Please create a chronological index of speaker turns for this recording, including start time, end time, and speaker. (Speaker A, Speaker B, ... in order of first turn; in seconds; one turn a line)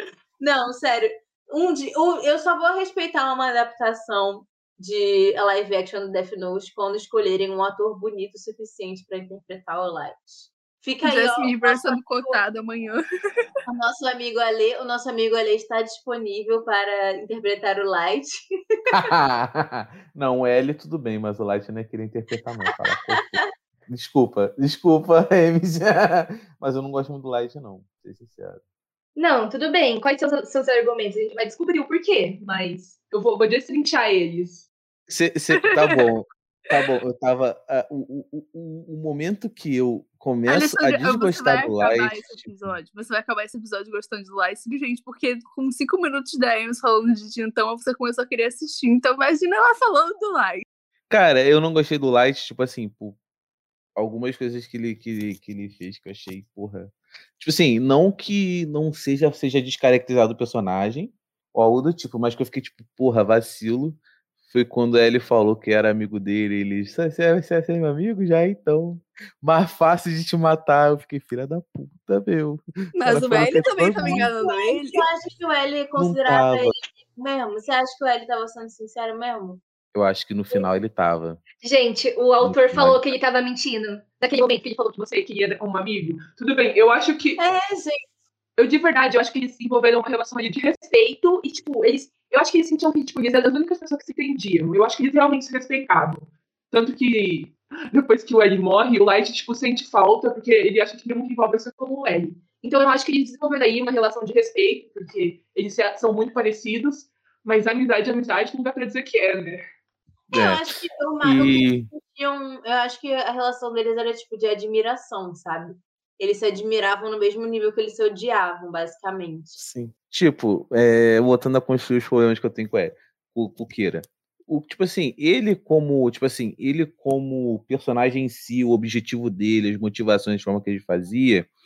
Speaker A: 0.4-12.4
Speaker B: 11.0-13.5
Speaker A: 13.7-18.8
Speaker C: 18.9-28.6
Speaker D: 29.1-33.0
Speaker E: 33.0-34.6
Speaker C: 35.1-42.8
Speaker B: 40.5-50.6
Speaker C: 51.1-53.2
Speaker C: 54.0-74.3
Speaker B: 73.0-75.0
Speaker A: 74.4-79.6
Speaker C: 76.0-76.8
Speaker C: 79.9-81.4
Speaker D: 81.6-84.8
Speaker C: 82.4-83.0
Speaker E: 84.7-87.4
Speaker A: 87.4-88.0
Speaker E: 88.5-109.6
Speaker A: 110.3-119.6
Speaker C: 110.3-111.9
Speaker C: 119.5-131.5